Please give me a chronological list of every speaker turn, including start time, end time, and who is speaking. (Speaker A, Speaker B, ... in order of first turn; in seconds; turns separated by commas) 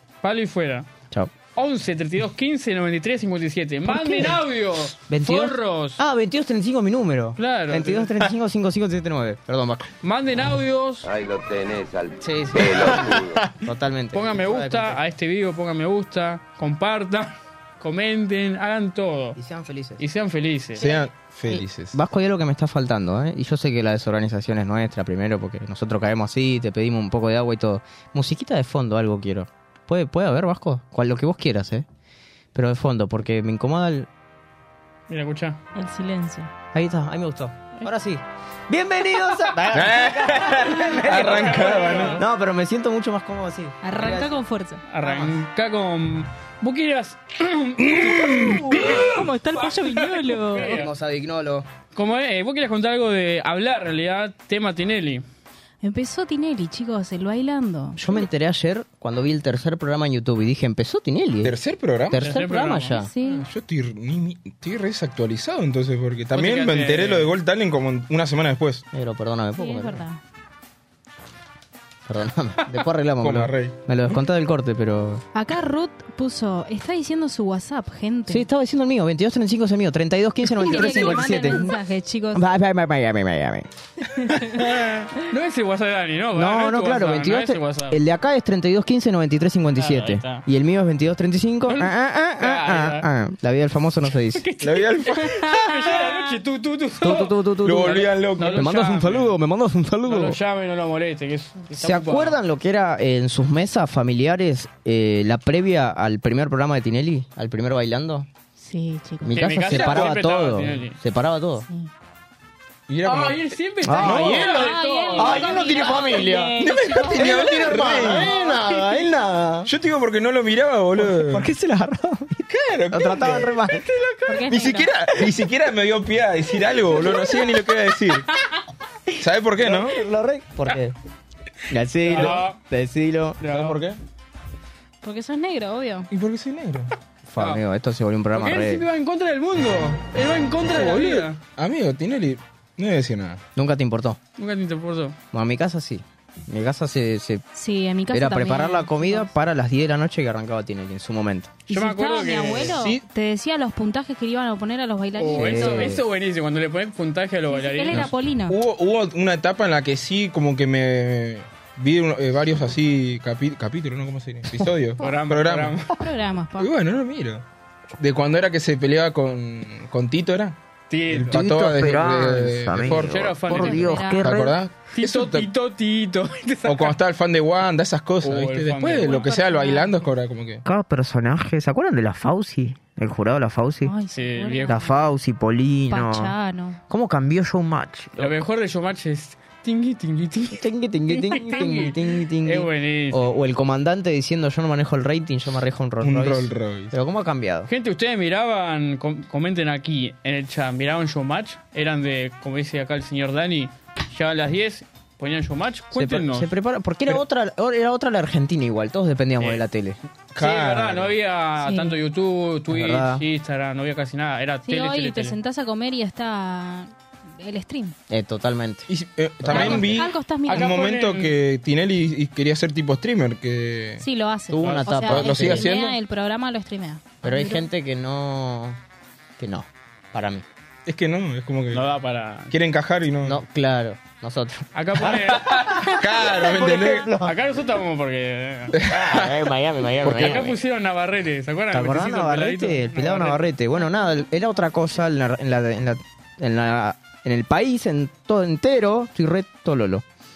Speaker A: 0.2-0.9, Speaker A: 1.6-6.0, Speaker B: 3.9-4.4, Speaker B: 5.1-9.9, Speaker A: 7.4-8.1, Speaker A: 10.0-11.1, Speaker C: 11.0-13.4, Speaker B: 12.2-15.0, Speaker A: 14.1-19.4, Speaker B: 19.4-20.0, Speaker A: 20.0-20.9, Speaker D: 20.8-22.0, Speaker B: 20.8-31.9, Speaker B: 32.5-34.1, Speaker A: 35.1-35.6, Speaker E: 35.8-36.5, Speaker B: 36.7-44.4, Speaker D: 39.7-42.2, Speaker A: 41.1-42.2, Speaker E: 43.8-44.9, Speaker A: 44.9-50.9, Speaker B: 45.0-45.3, Speaker D: 48.0-48.6, Speaker E: 48.7-50.9, Speaker B: 50.6-51.7, Speaker A: 51.9-55.2, Speaker E: 55.8-58.0, Speaker B: 58.0-61.6, Speaker D: 61.4-62.4, Speaker B: 62.1-63.1, Speaker A: 62.1-63.0, Speaker E: 62.9-63.5, Speaker D: 63.2-68.9, Speaker A: 66.3-67.3, Speaker B: 68.9-70.0, Speaker E: 69.5-70.2, Speaker B: 72.1-75.2, Speaker D: 73.2-73.7, Speaker E: 75.3-78.5, Speaker B: 78.3-81.8, Speaker E: 80.5-82.5, Speaker B: 82.3-83.7, Speaker A: 84.5-88.0, Speaker B: 86.3-94.5, Speaker A: 89.8-90.5, Speaker A: 91.7-93.1, Speaker A: 94.3-97.4, Speaker D: 94.6-95.4, Speaker E: 95.3-95.6, Speaker B: 97.0-100.4, Speaker D: 97.6-98.7, Speaker A: 98.4-99.3, Speaker A: 100.1-102.4, Speaker B: 101.7-108.3, Speaker E: 108.6-109.5, Speaker B: 109.2-111.7, Speaker A: 109.3-111.0, Speaker D: 109.7-110.2, Speaker D: 112.9-113.5, Speaker A: 113.0-116.2, Speaker B: 113.8-119.7, Speaker D: 114.0-114.7, Speaker E: 114.1-117.8, Speaker D: 116.6-118.3, Speaker A: 117.8-119.0, Speaker D: 119.7-121.5, Speaker B: 121.0-123.9, Speaker D: 122.5-123.6, Speaker E: 124.3-124.9, Speaker B: 124.5-125.3, Speaker D: 124.5-128.3, Speaker D: 129.2-130.0, Speaker B: 129.6-130.9, Speaker B: 131.7-133.4, Speaker A: 132.1-132.6, Speaker A: 133.4-133.8, Speaker D: 133.5-134.0, Speaker E: 135.0-136.1, Speaker D: 136.1-136.9, Speaker B: 137.3-138.8, Speaker A: 138.3-141.4, Speaker D: 140.7-143.4, Speaker B: 143.6-144.2, Speaker A: 144.4-145.2, Speaker B: 145.3-147.4, Speaker E: 147.5-149.3, Speaker B: 148.1-151.6, Speaker E: 151.7-156.0, Speaker A: 151.7-152.8, Speaker D: 152.8-153.0, Speaker A: 155.2-158.1, Speaker B: 155.3-156.0, Speaker E: 157.5-158.6, Speaker D: 157.9-165.8, Speaker A: 165.0-165.9, Speaker E: 165.9-166.7, Speaker D: 166.6-167.4, Speaker D: 168.0-170.6, Speaker A: 170.9-171.4, Speaker D: 171.1-173.7, Speaker B: 171.3-174.6, Speaker A: 172.8-174.1, Speaker E: 173.5-174.3, Speaker D: 174.2-175.5, Speaker A: 174.9-177.0, Speaker D: 176.7-180.6, Speaker A: 178.2-179.3, Speaker E: 179.1-180.1, Speaker B: 180.6-183.9, Speaker E: 183.8-185.1, Speaker A: 184.1-184.8, Speaker B: 184.7-186.4, Speaker E: 185.9-186.8, Speaker B: 186.9-188.4, Speaker A: 188.2-193.3, Speaker B: 190.5-197.7, Speaker E: 191.3-191.9, Speaker D: 196.0-196.9, Speaker A: 197.7-206.5, Speaker B: 205.9-210.0, Speaker D: 210.3-211.1, Speaker A: 210.4-215.4, Speaker E: 211.6-212.0, Speaker B: 212.7-213.2, Speaker E: 214.7-217.9, Speaker B: 218.1-218.9, Speaker D: 218.9-224.0, Speaker B: 219.4-219.9, Speaker E: 219.5-220.8, Speaker A: 219.5-219.8, Speaker A: 220.5-221.3, Speaker E: 224.0-227.7, Speaker B: 224.5-225.8, Speaker A: 224.7-225.3, Speaker D: 225.1-226.0, Speaker B: 227.2-228.8, Speaker B: 229.4-230.4, Speaker D: 230.9-231.9, Speaker A: 231.7-232.5, Speaker D: 232.5-233.4, Speaker B: 233.2-235.4, Speaker A: 234.8-235.9, Speaker D: 235.6-237.1, Speaker B: 236.2-237.3, Speaker A: 237.2-238.8, Speaker D: 238.8-239.4, Speaker B: 238.8-240.6, Speaker D: 240.0-240.4, Speaker A: 240.0-243.4, Speaker B: 241.7-250.0